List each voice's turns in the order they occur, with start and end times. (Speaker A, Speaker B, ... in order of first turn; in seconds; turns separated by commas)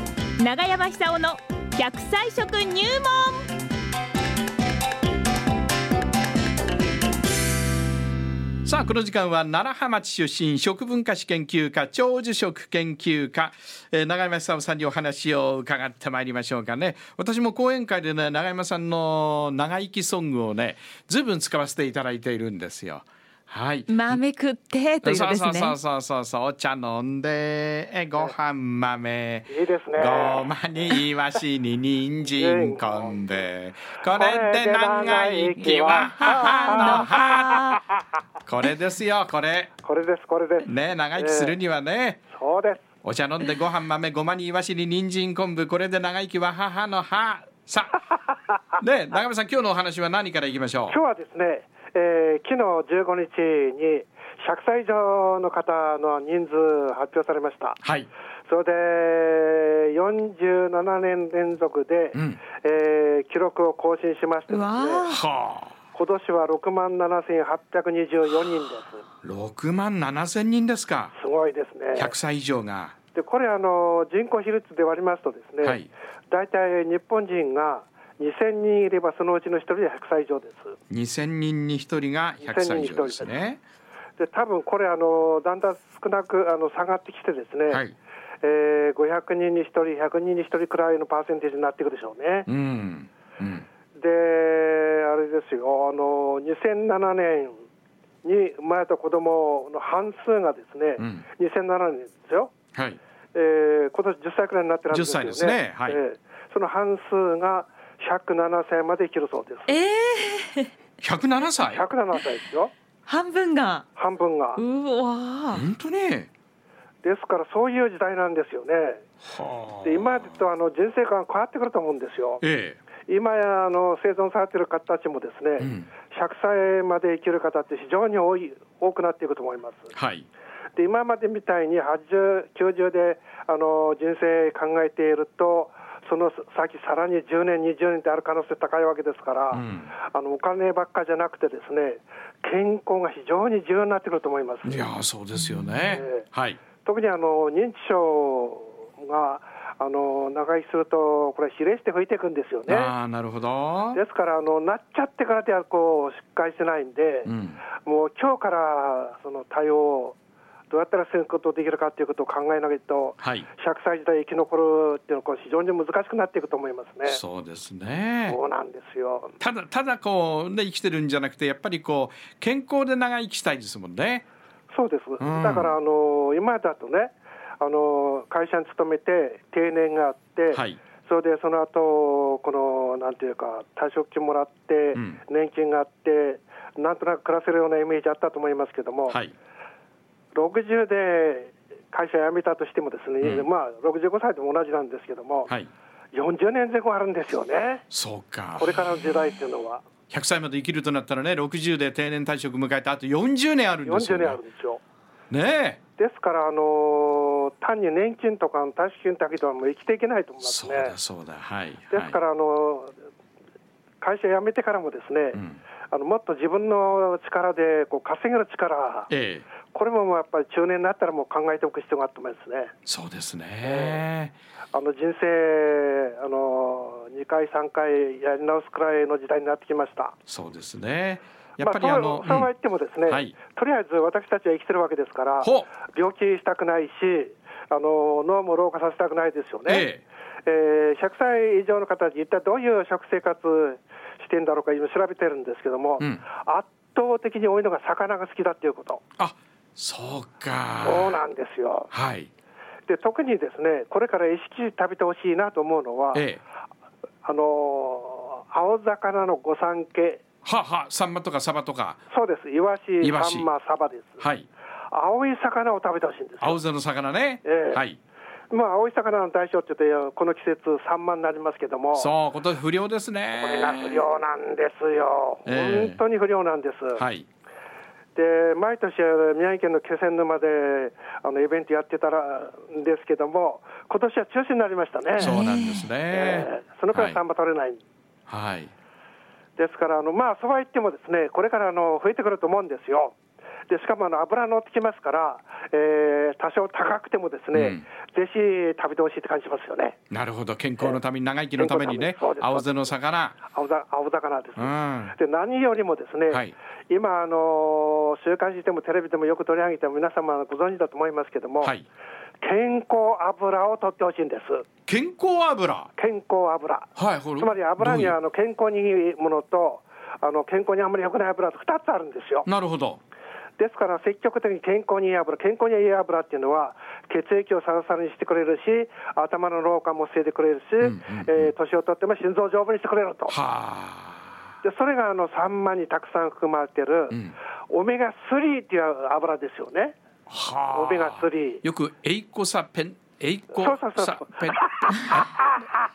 Speaker A: 0.4-3.5, Speaker B: 8.7-24.2, Speaker A: 23.9-25.8, Speaker B: 25.0-37.8, Speaker C: 29.5-30.5, Speaker C: 32.4-33.4, Speaker C: 34.1-37.2, Speaker A: 35.7-37.8, Speaker B: 38.5-39.7, Speaker C: 39.8-41.5, Speaker B: 40.6-42.2, Speaker C: 42.3-42.9, Speaker B: 43.0-48.1, Speaker B: 48.7-51.0, Speaker C: 50.9-57.8, Speaker B: 57.8-58.1, Speaker C: 58.5-65.0, Speaker B: 62.1-62.4, Speaker A: 64.5-65.2, Speaker B: 65.0-65.7, Speaker C: 65.9-69.1, Speaker B: 69.2-71.1, Speaker C: 71.1-72.1, Speaker B: 72.0-73.0, Speaker C: 73.1-80.8, Speaker B: 75.6-75.9, Speaker B: 80.9-83.6, Speaker C: 82.4-83.3, Speaker C: 84.2-87.8, Speaker B: 87.7-88.0, Speaker C: 88.4-92.5, Speaker B: 92.5-93.7, Speaker C: 94.0-97.6, Speaker C: 98.2-102.5, Speaker B: 101.0-101.2, Speaker B: 102.7-103.0, Speaker C: 103.3-109.8, Speaker B: 104.9-106.0, Speaker A: 109.7-110.7, Speaker B: 111.0-111.8, Speaker C: 111.6-112.7, Speaker A: 113.1-113.8, Speaker C: 114.0-114.6, Speaker A: 114.6-115.6, Speaker B: 115.5-116.3, Speaker C: 117.0-119.1, Speaker B: 119.2-120.4, Speaker C: 119.8-122.4, Speaker B: 122.4-122.8, Speaker C: 123.1-129.9, Speaker B: 125.6-125.9, Speaker B: 129.9-130.3, Speaker C: 130.8-144.8, Speaker B: 139.5-139.9, Speaker B: 144.6-146.6, Speaker C: 145.9-146.3, Speaker C: 146.8-152.9, Speaker B: 152.7-154.0, Speaker C: 153.9-160.2, Speaker B: 157.2-157.6, Speaker C: 160.7-167.2, Speaker B: 163.2-163.5, Speaker B: 167.1-168.4, Speaker C: 168.3-169.3, Speaker B: 169.4-174.3, Speaker C: 174.7-189.2, Speaker B: 175.2-175.8, Speaker B: 180.5-180.8, Speaker B: 184.9-185.2, Speaker B: 189.1-189.3, Speaker C: 190.3-195.5, Speaker B: 193.2-193.5, Speaker C: 196.1-197.8, Speaker B: 197.9-199.0, Speaker C: 198.6-199.9, Speaker B: 200.1-204.4, Speaker C: 203.8-204.8, Speaker B: 205.3-205.8, Speaker C: 206.0-211.0, Speaker B: 210.4-212.2, Speaker C: 211.9-212.9, Speaker C: 214.0-219.1, Speaker B: 215.3-215.6, Speaker B: 219.1-219.5, Speaker C: 219.7-222.7, Speaker B: 222.8-224.3, Speaker C: 223.6-224.0, Speaker C: 224.7-230.2, Speaker B: 230.3-232.5, Speaker C: 231.6-239.9, Speaker B: 233.1-233.4, Speaker B: 235.4-235.7, Speaker B: 239.7-240.0, Speaker C: 240.5-249.0, Speaker B: 249.2-251.2, Speaker C: 250.8-251.9, Speaker B: 251.9-252.3, Speaker C: 252.9-256.3, Speaker B: 256.1-256.4, Speaker C: 257.2-260.2, Speaker B: 260.4-262.0, Speaker C: 262.1-264.2, Speaker B: 263.0-263.5, Speaker B: 264.2-264.5, Speaker C: 264.9-266.6, Speaker B: 266.4-268.0, Speaker C: 267.4-267.8, Speaker C: 268.5-272.1, Speaker B: 271.9-274.1, Speaker C: 273.4-277.0, Speaker B: 275.4-276.0, Speaker B: 277.0-277.3, Speaker C: 278.1-285.4, Speaker B: 285.2-287.2, Speaker A: 285.2-285.9, Speaker C: 286.1-287.8, Speaker B: 288.3-288.7, Speaker C: 289.6-293.2, Speaker C: 293.7-300.0, Speaker B: 297.5-297.9, Speaker B: 300.1-303.4, Speaker C: 301.6-311.8, Speaker B: 304.6-305.1, Speaker C: 312.4-314.7, Speaker B: 314.9-315.9, Speaker C: 316.0-322.5, Speaker B: 317.0-318.2, Speaker B: 322.4-323.0, Speaker C: 323.6-333.4, Speaker B: 330.8-331.5, Speaker B: 333.3-334.4, Speaker C: 334.6-340.0, Speaker B: 337.1-337.4, Speaker B: 340.3-345.4, Speaker C: 340.7-341.6, Speaker C: 343.6-345.7